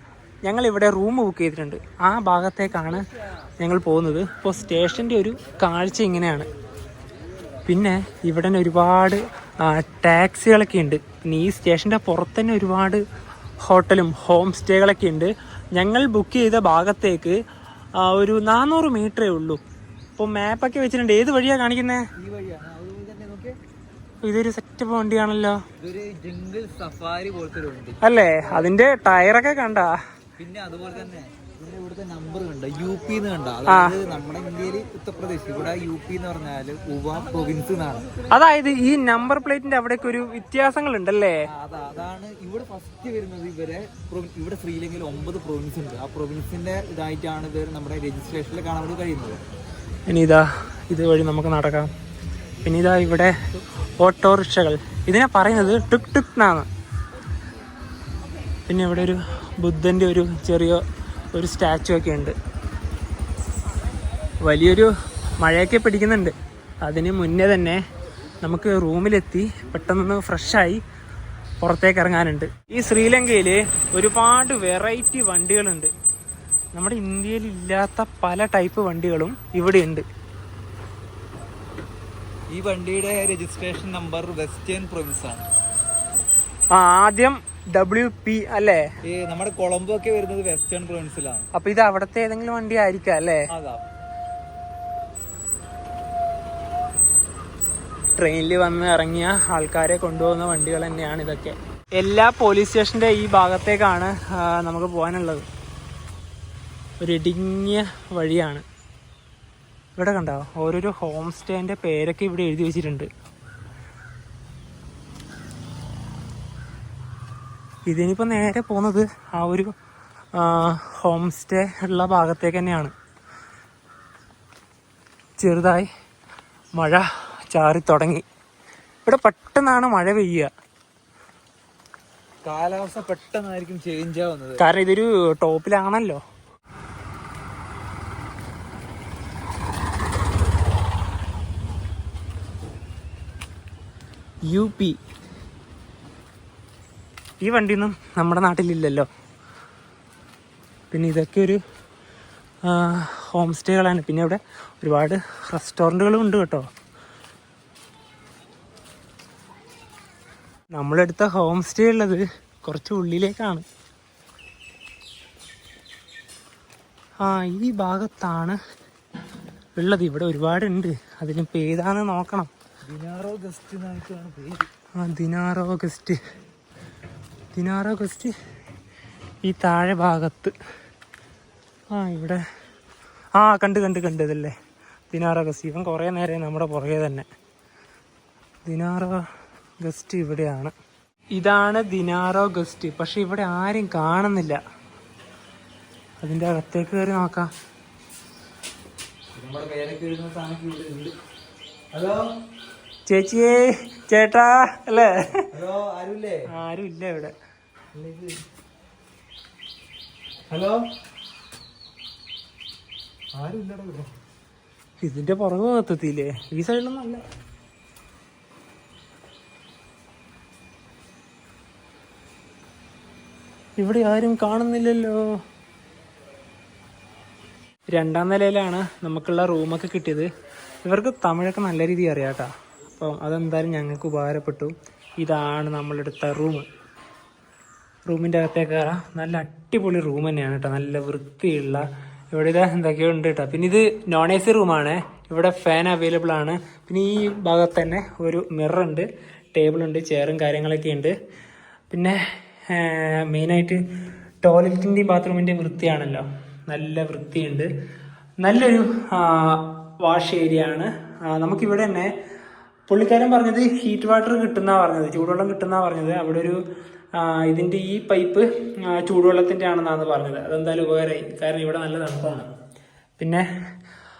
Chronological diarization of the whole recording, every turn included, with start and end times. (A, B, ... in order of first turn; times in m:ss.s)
0:00.4-0:03.0 A
0:03.6-0:06.5 A
0:07.7-0:13.0 A
0:13.6-0:17.4 A
0:18.0-0:19.6 A
0:20.2-0:22.0 A
0:22.2-0:23.6 B
0:24.2-0:25.6 A
0:25.8-0:28.0 B
0:28.0-0:30.0 A
0:30.4-0:38.1 B
0:33.7-0:34.0 A
0:38.3-0:41.4 A
0:41.5-0:49.4 B
0:50.1-0:51.9 A
0:52.6-0:53.4 A
0:54.0-0:56.7 A
0:58.7-1:00.8 A
1:01.3-1:02.4 A
1:04.4-1:07.8 A
1:08.4-1:10.8 A
1:11.6-1:15.9 A
1:16.7-1:20.0 A
1:22.5-1:25.5 B
1:26.7-1:28.8 A
1:29.0-1:31.5 B
1:31.6-1:33.5 A
1:33.5-1:33.8 B
1:38.2-1:45.5 A
1:47.0-1:48.6 A
1:50.0-1:53.1 A
1:57.9-1:59.7 A
2:00.4-2:02.9 A
2:05.4-2:05.9 A
2:06.8-2:08.2 A
2:09.1-2:10.5 A
2:12.4-2:14.6 B
2:14.6-2:16.2 A
2:24.5-2:25.0 A
2:27.4-2:29.1 A
2:30.9-2:31.6 A
2:32.6-2:36.7 A
2:40.7-2:43.6 A
2:47.2-2:48.6 A
2:49.8-2:52.5 A
2:52.8-2:54.7 B
2:55.0-2:56.2 A
2:57.6-2:58.4 A
2:59.4-3:00.5 A
3:01.9-3:02.4 A
3:03.4-3:04.5 A
3:05.1-3:07.2 A
3:08.6-3:09.3 A
3:09.8-3:10.7 A
3:11.3-3:14.6 A
3:16.2-3:17.5 A
3:19.3-3:21.1 B
3:21.9-3:22.3 B
3:23.1-3:25.5 A
3:25.5-3:26.5 B
3:26.5-3:27.3 A
3:27.9-3:28.4 B
3:30.5-3:30.8 B
3:33.3-3:34.1 B
3:35.0-3:37.2 A
3:43.8-3:45.3 A
3:47.9-3:50.3 A
3:50.8-3:56.7 A
3:58.1-4:11.1 A
4:11.9-4:13.8 A
4:14.4-4:17.7 A
4:18.4-4:22.1 A
4:22.9-4:26.6 A
4:27.2-4:32.5 A
4:33.2-4:33.5 A